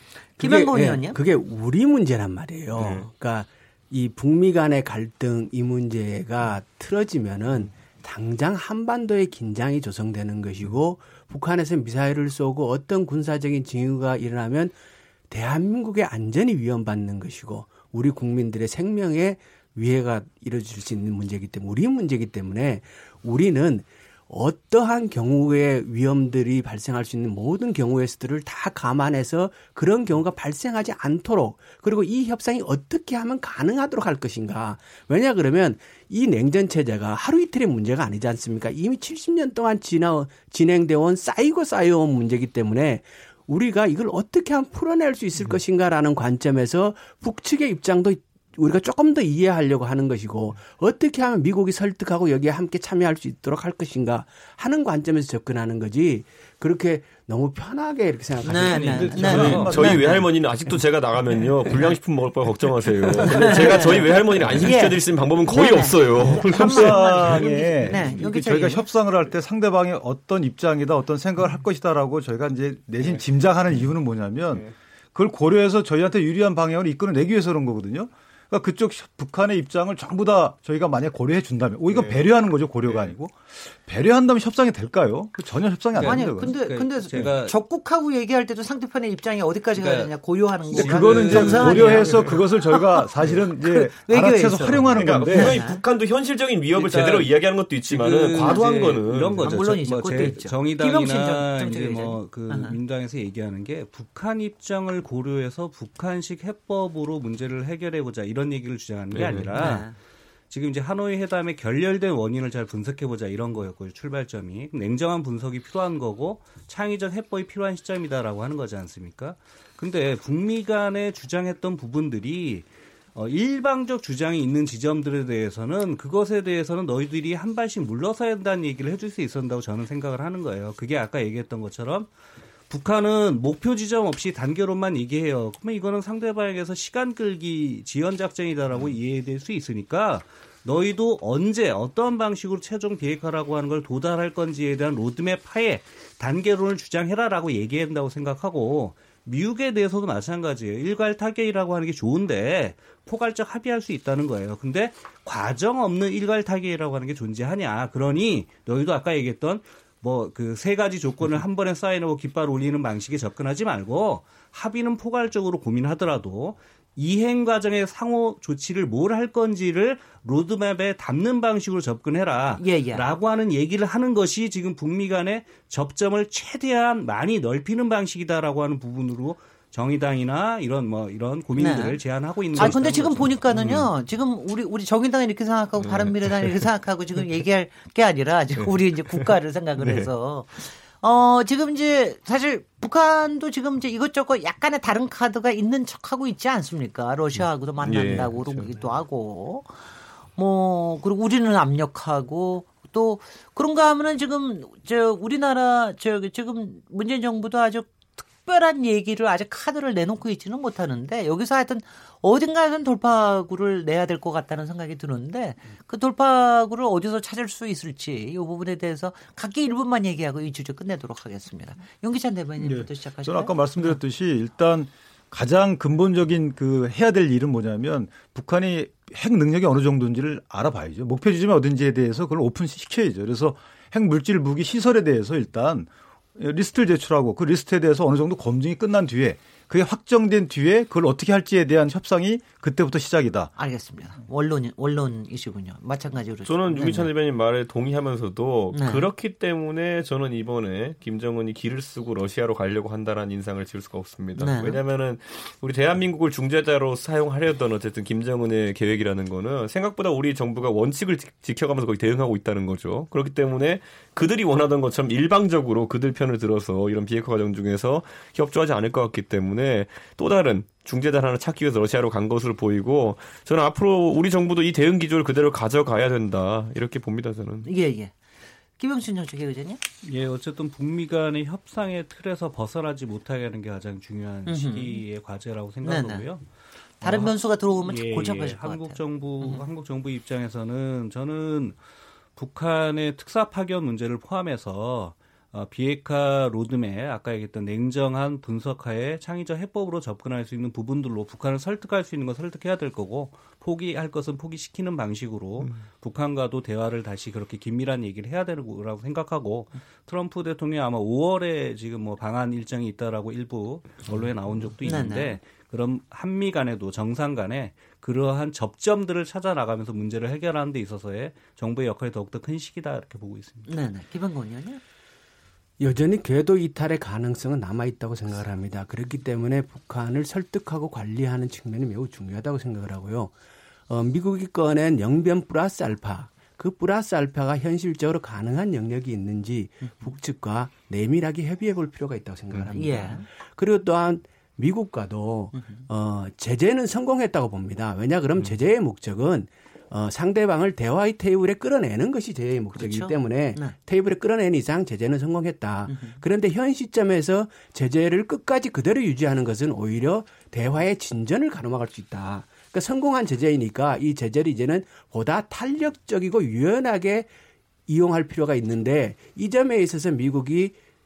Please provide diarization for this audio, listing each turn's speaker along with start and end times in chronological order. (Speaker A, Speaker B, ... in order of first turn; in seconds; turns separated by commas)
Speaker A: 0.4-1.2, Speaker B: 0.4-14.8, Speaker C: 2.8-3.1, Speaker B: 15.3-59.5, Speaker A: 58.4-60.3, Speaker D: 58.5-59.8, Speaker E: 58.7-60.1, Speaker C: 59.2-67.3, Speaker A: 63.2-68.9, Speaker E: 66.5-86.5, Speaker D: 81.9-82.2, Speaker D: 82.9-83.1, Speaker D: 85.9-87.5, Speaker A: 86.0-95.8, Speaker D: 89.7-90.1, Speaker D: 90.7-92.2, Speaker E: 90.7-95.5, Speaker C: 94.9-99.5, Speaker D: 96.7-109.9, Speaker A: 98.4-98.6, Speaker A: 99.4-102.8, Speaker C: 109.1-109.7, Speaker A: 109.5-110.0, Speaker D: 110.5-132.1, Speaker D: 132.7-183.4, Speaker A: 172.6-173.1, Speaker A: 181.6-182.0, Speaker A: 182.5-199.8, Speaker C: 182.6-182.8, Speaker C: 183.5-183.9, Speaker C: 185.8-186.5, Speaker C: 188.6-190.1, Speaker C: 197.8-198.9, Speaker A: 200.4-224.0, Speaker E: 222.6-243.5, Speaker A: 243.6-247.1, Speaker C: 246.4-277.7, Speaker A: 248.7-249.1, Speaker A: 254.4-254.8, Speaker A: 277.6-278.2, Speaker A: 278.8-279.8, Speaker D: 280.0-286.4, Speaker A: 284.5-285.0, Speaker A: 285.8-286.3, Speaker D: 287.0-291.8, Speaker A: 287.0-289.6, Speaker D: 292.4-323.7, Speaker A: 314.9-315.4, Speaker A: 323.7-324.8, Speaker B: 325.8-333.3, Speaker B: 333.9-367.3, Speaker A: 342.7-343.3, Speaker A: 345.6-345.8, Speaker A: 352.7-353.8, Speaker A: 355.9-356.2, Speaker B: 367.9-370.8